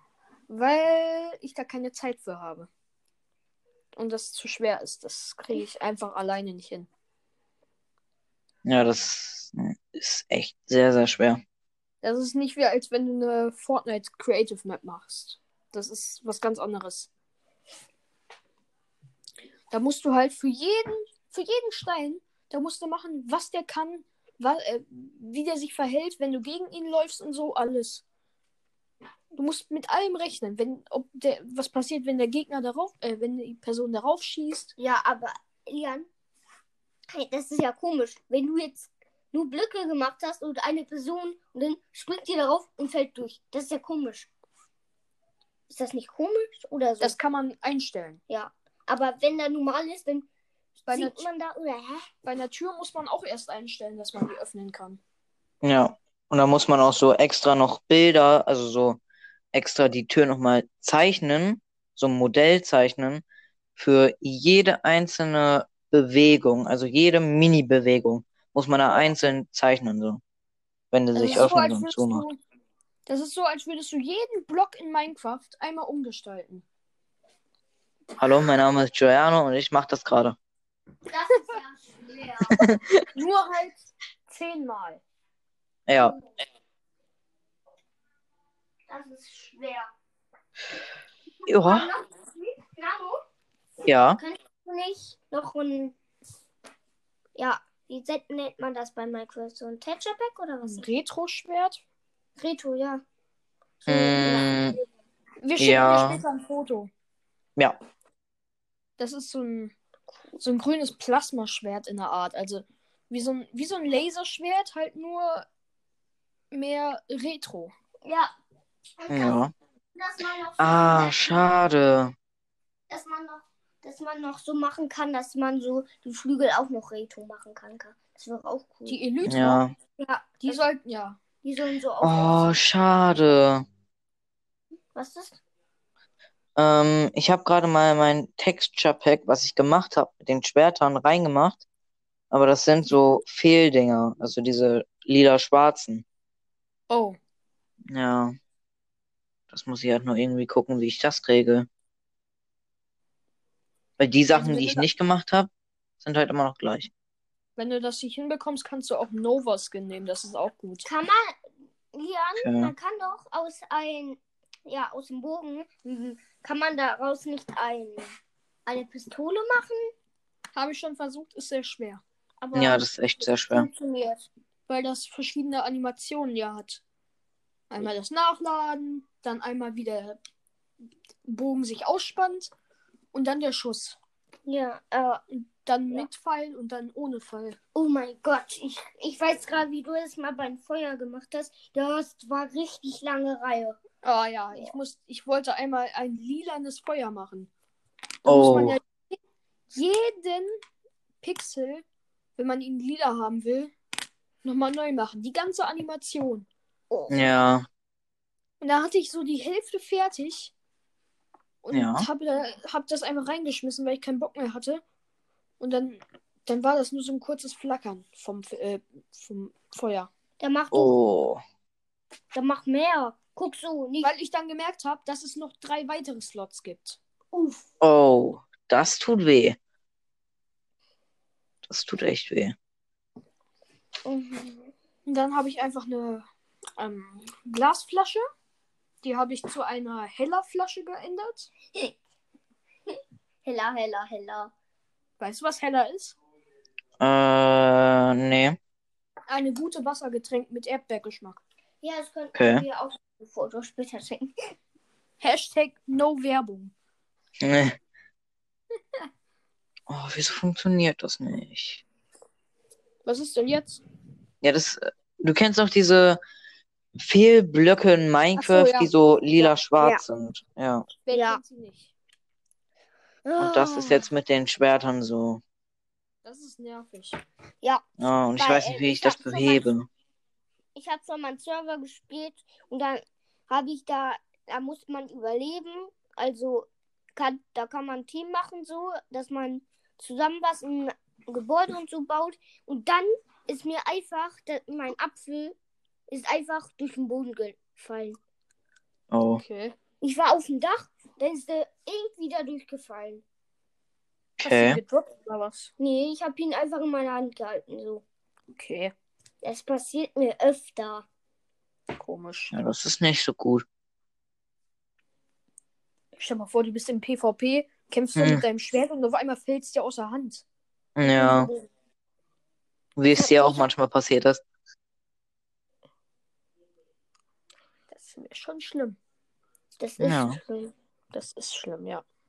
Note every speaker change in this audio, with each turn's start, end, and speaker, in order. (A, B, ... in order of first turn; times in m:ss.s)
0:00.5-0:02.7 A
0:04.0-0:06.9 A
0:08.6-0:11.4 B
0:12.0-0:17.1 A
0:19.7-0:28.0 A
0:29.3-0:34.7 A
0:34.8-0:36.1 C
0:37.1-0:44.3 C
0:45.7-0:47.2 C
0:47.0-0:48.2 A
0:48.3-0:50.3 C
0:50.8-0:52.1 C
0:50.9-0:51.2 A
0:52.2-0:55.0 A
0:55.6-0:59.0 B
0:59.5-1:03.2 B
1:03.8-1:10.2 B
1:10.9-1:12.2 B
1:11.1-1:12.4 A
1:13.1-1:16.6 A
1:18.2-1:20.4 B
1:21.1-1:22.6 C
1:22.5-1:23.0 B
1:23.1-1:25.0 A
1:25.9-1:26.1 B
1:26.0-1:26.3 C
1:28.9-1:29.9 C
1:31.5-1:31.9 B
1:31.5-1:33.2 C
1:33.8-1:34.2 B
1:34.2-1:35.9 C
1:37.4-1:40.9 C
1:40.6-1:41.8 A
1:42.4-1:43.0 C
1:43.8-1:44.8 C
1:43.9-1:44.8 B
1:45.4-1:46.9 A
1:45.6-1:46.2 B
1:49.0-1:49.7 A
1:50.4-1:55.4 A
1:56.5-1:57.7 A
1:58.0-1:58.3 C
1:59.0-1:59.4 C
1:59.1-1:59.5 B
1:59.9-2:01.4 C
2:00.6-2:02.1 B
2:02.9-2:09.0 C
2:08.9-2:09.6 A
2:09.2-2:09.7 B
2:10.0-2:10.6 C
2:10.4-2:11.2 A
2:11.4-2:12.5 C
2:12.0-2:13.6 B
2:14.9-2:15.4 C
2:16.6-2:21.6 B
2:22.3-2:26.0 B
2:26.9-2:27.2 A
2:27.9-2:28.3 B
2:29.5-2:31.7 B
2:34.0-2:35.5 B
2:34.3-2:34.9 A
2:36.0-2:36.9 B
2:37.6-2:40.8 A
2:40.8-2:41.4 C
2:41.9-2:48.1 C
2:42.4-2:42.7 B
2:48.6-2:49.9 C
2:50.5-2:52.0 A
2:52.4-2:54.3 C
2:52.5-2:53.7 B
2:54.7-2:56.8 A
2:57.7-3:00.2 A
3:01.2-3:02.5 A
3:03.1-3:04.0 A
3:04.4-3:05.2 C
3:05.3-3:07.6 A
3:07.7-3:13.8 C
3:14.0-3:17.5 A
3:18.2-3:19.2 A
3:18.2-3:18.8 B
3:19.7-3:20.6 A
3:21.2-3:21.8 A
3:22.4-3:23.7 A
3:24.4-3:26.5 A
3:26.9-3:27.3 C
3:27.1-3:27.7 B
3:28.6-3:30.5 A
3:31.6-3:34.8 A
3:31.7-3:32.1 B
3:35.6-3:40.1 A
3:40.4-3:40.9 C
3:40.7-3:41.4 B
3:42.3-3:44.1 C
3:44.0-3:47.0 A
3:47.3-3:47.7 C
3:47.8-3:49.6 B
3:51.6-3:52.5 B
3:54.0-3:54.7 C
3:55.0-3:56.2 A
3:56.8-3:58.2 A
3:59.0-4:01.5 A
4:02.9-4:04.5 C
4:05.2-4:06.2 A
4:07.0-4:08.6 B
4:09.3-4:11.4 A
4:11.8-4:14.5 C
4:12.3-4:12.6 B
4:15.2-4:16.7 A
4:17.4-4:17.8 B
4:19.9-4:21.8 B
4:23.0-4:23.8 A
4:24.4-4:26.2 B
4:27.0-4:30.9 B
4:28.4-4:29.4 A
4:31.0-4:31.9 A
4:31.1-4:31.4 C
4:33.2-4:34.0 C
4:33.4-4:35.4 B
4:36.2-4:37.2 A
4:38.0-4:39.9 B
4:38.4-4:39.6 C
4:40.7-4:55.6 C
4:56.1-4:58.2 C
4:59.1-4:59.4 B
4:59.4-4:59.7 A
5:00.0-5:03.2 C
5:04.4-5:05.7 A
5:04.4-5:04.8 B
5:05.8-5:08.0 C
5:08.5-5:08.9 A
5:09.4-5:11.0 C
5:12.0-5:12.6 A
5:12.5-5:13.6 B
5:16.2-5:20.4 A
5:18.2-5:18.4 B
5:21.0-5:21.5 B
5:21.0-5:21.7 C
5:23.0-5:24.4 B
5:23.2-5:23.7 C
5:27.9-5:29.0 A
5:29.8-5:30.7 C
5:30.0-5:30.4 B
5:31.1-5:32.0 A